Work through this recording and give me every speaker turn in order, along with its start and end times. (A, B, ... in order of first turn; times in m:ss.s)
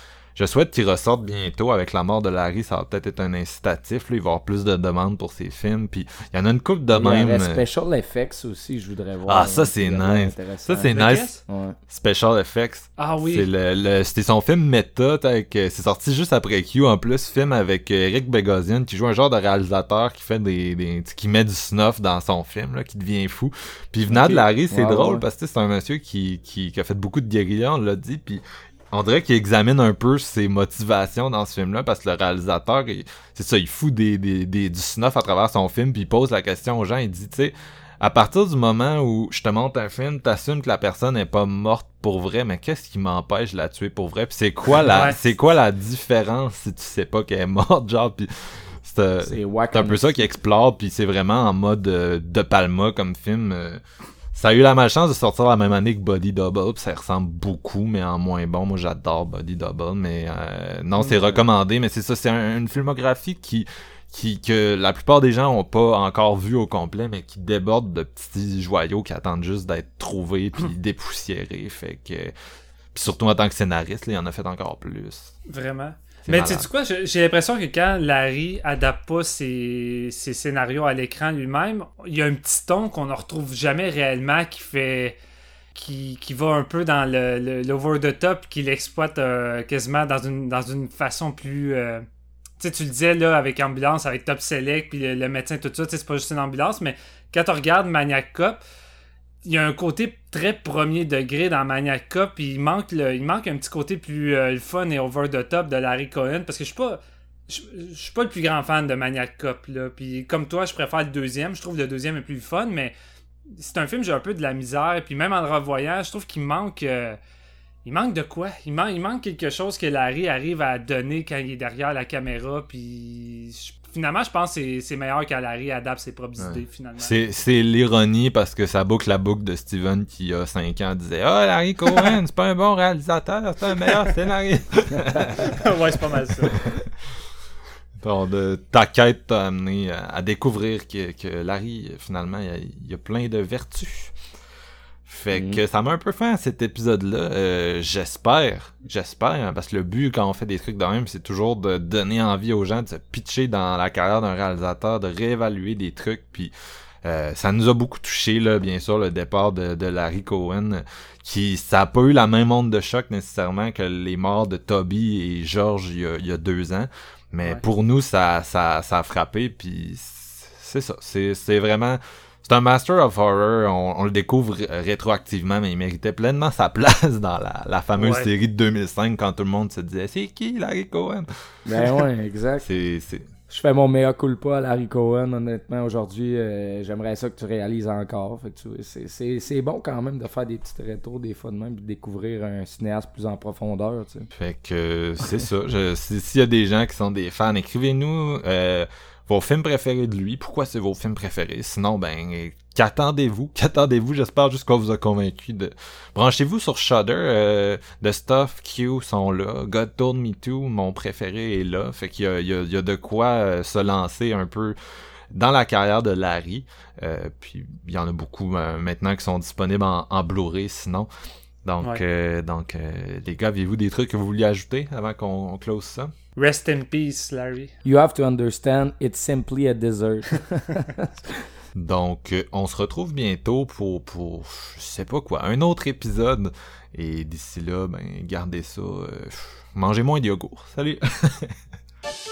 0:00.4-0:07.6 A
0:06.9-0:11.8 B
0:09.3-0:11.4 A
0:10.9-0:11.4 C
0:11.9-0:53.8 A
0:13.0-0:13.5 C
0:24.1-0:25.2 B
0:49.2-0:50.2 B
0:54.3-1:12.3 A
1:01.0-1:01.4 B
1:13.0-1:15.4 A
1:15.5-1:25.2 C
1:16.3-1:16.7 A
1:25.8-1:32.0 C
1:32.6-1:38.6 C
1:39.4-1:52.9 C
1:53.6-1:57.2 C
1:57.8-2:07.1 C
2:06.4-2:15.6 A
2:15.0-2:15.3 B
2:15.4-2:16.6 C
2:18.0-2:24.1 A
2:25.1-2:36.5 A
2:25.3-2:25.6 B
2:37.0-3:01.3 A
2:58.0-2:58.3 C
3:01.7-3:02.7 B
3:02.6-3:03.3 A
3:03.5-3:14.3 B
3:14.3-3:34.8 A
3:35.3-3:41.1 A
3:41.6-3:46.1 A
3:46.4-3:47.7 C
3:47.8-3:51.4 B
3:51.8-4:01.6 A